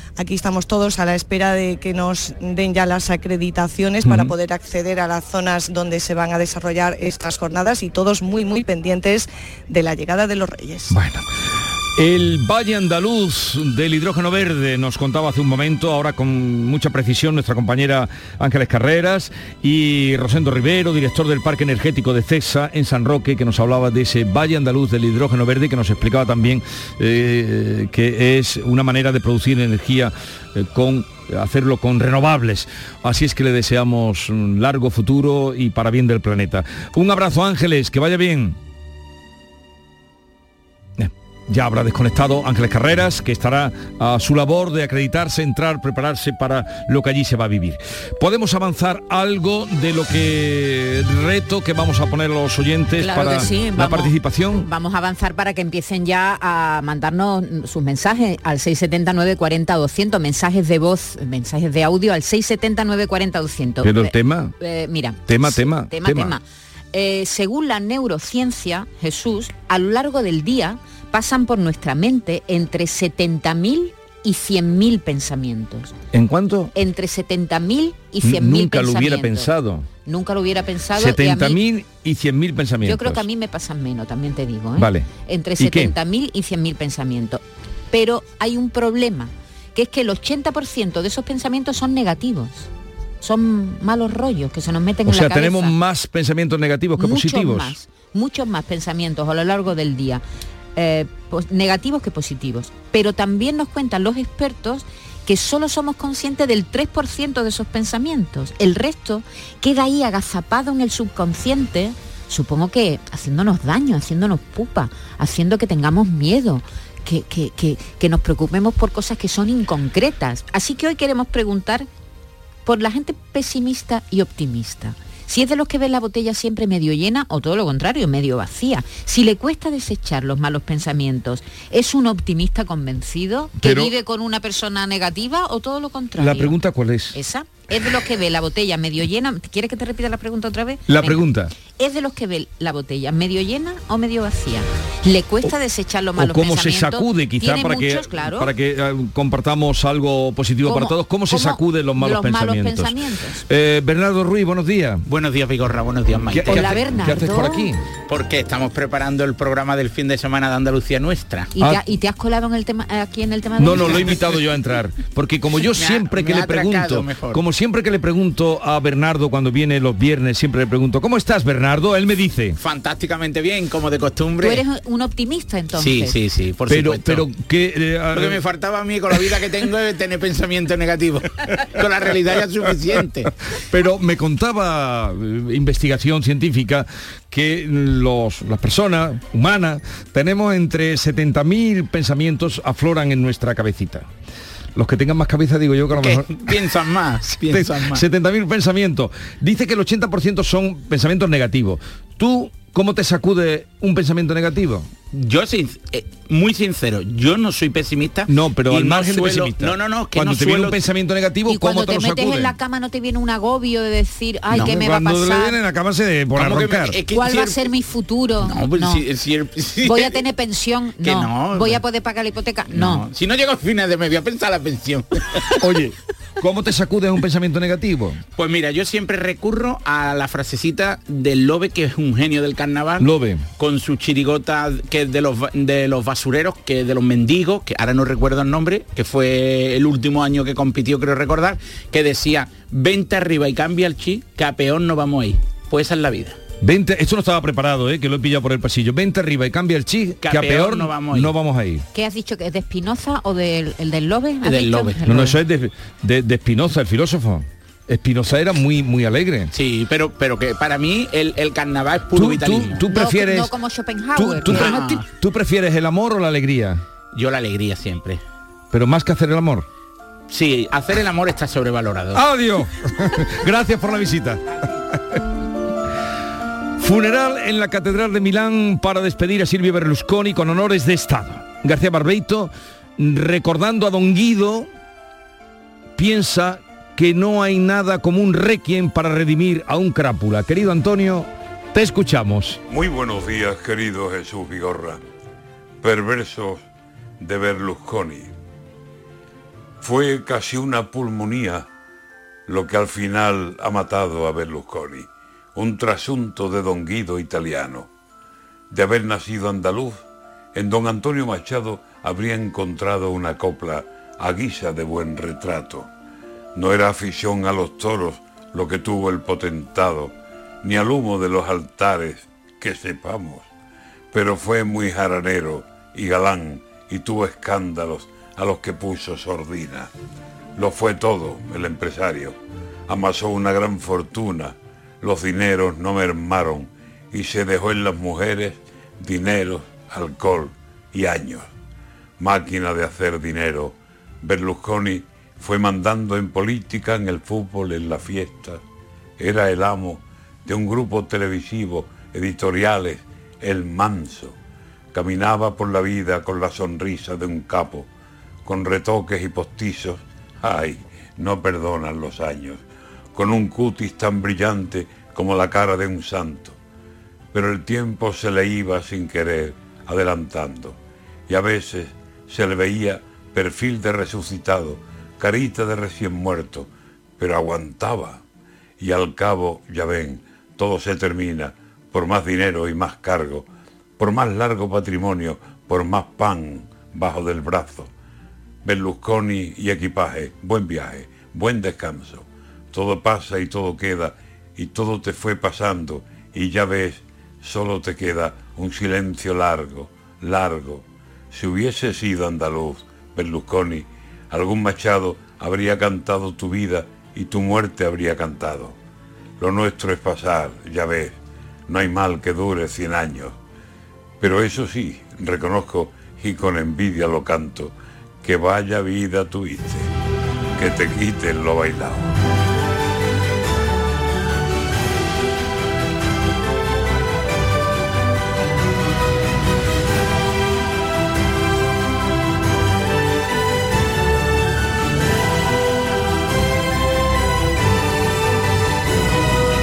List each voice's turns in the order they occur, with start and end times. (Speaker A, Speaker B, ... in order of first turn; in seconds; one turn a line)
Speaker A: 0.2-10.9
Speaker B: 4.0-4.3
Speaker B: 10.9-11.3
Speaker B: 11.9-38.5
Speaker B: 41.0-54.7
Speaker C: 53.0-75.9
Speaker B: 63.8-64.5
Speaker B: 65.2-66.4
Speaker B: 76.1-76.7
Speaker C: 76.7-79.5
Speaker B: 78.2-79.9
Speaker C: 80.0-81.6
Speaker B: 80.9-83.3
Speaker C: 82.8-92.7
Speaker B: 84.8-85.9
Speaker C: 93.2-95.7
Speaker B: 95.0-97.8
Speaker C: 97.0-100.2
Speaker C: 100.8-121.9
Speaker C: 122.6-136.6
Speaker B: 133.6-133.9
Speaker B: 136.2-137.2
Speaker C: 137.1-148.5
Speaker B: 140.9-141.5
Speaker B: 146.2-155.0
Speaker C: 150.6-153.4
Speaker D: 155.1-156.7
Speaker B: 156.3-157.8
Speaker C: 156.4-157.7
Speaker D: 158.1-161.5
Speaker C: 161.5-164.2
Speaker B: 161.6-161.8
Speaker B: 163.6-172.6
Speaker D: 163.9-164.2
Speaker D: 165.7-167.4
Speaker D: 172.6-174.6
Speaker C: 174.4-176.1
Speaker D: 175.7-177.3
Speaker B: 176.7-178.4
Speaker D: 178.1-183.3
Speaker B: 183.7-194.1
Speaker B: 194.8-196.5
Speaker D: 195.9-198.0
Speaker B: 197.4-204.9
Speaker D: 205.1-210.8
Speaker B: 208.3-212.6
Speaker C: 211.5-215.6
Speaker B: 214.5-217.0
Speaker D: 216.3-217.7
Speaker C: 217.0-219.0
Speaker D: 218.4-220.2
Speaker C: 219.8-223.1
Speaker D: 221.0-221.8
Speaker D: 222.7-225.4
Speaker B: 225.6-228.2
Speaker D: 228.3-246.4
Speaker B: 233.0-233.4
Speaker B: 246.6-251.8
Speaker D: 250.2-251.3
Speaker C: 251.9-255.3
Speaker D: 254.4-255.3
Speaker B: 255.1-259.5
Speaker D: 259.5-262.9
Speaker B: 262.1-263.5
Speaker C: 262.9-265.0
Speaker B: 264.1-266.8
Speaker D: 264.5-265.1
Speaker D: 267.1-268.2
Speaker B: 268.7-269.6
Speaker D: 270.3-272.2
Speaker B: 272.1-274.4
Speaker B: 276.8-284.7
Speaker B: 285.9-292.6
Speaker E: 292.7-295.0
Speaker E: 295.8-296.6
Speaker E: 297.2-298.3
Speaker E: 299.8-301.7
Speaker E: 302.5-307.9
Speaker E: 308.7-310.0
Speaker E: 310.5-315.9
Speaker E: 316.5-323.5
Speaker E: 324.1-329.9
Speaker E: 330.6-332.4
Speaker E: 332.9-341.5
Speaker E: 342.2-348.6
Speaker E: 349.2-354.3
Speaker E: 354.9-357.9
Speaker E: 358.4-362.6
Speaker E: 363.1-366.6
Speaker E: 367.3-370.8
Speaker E: 371.3-376.7
Speaker E: 377.2-378.2
Speaker E: 378.8-383.4
Speaker E: 384.0-387.9
Speaker E: 388.6-408.8
Speaker E: 409.4-411.1
Speaker E: 411.7-413.4
Speaker E: 414.2-419.9
Speaker E: 420.6-422.1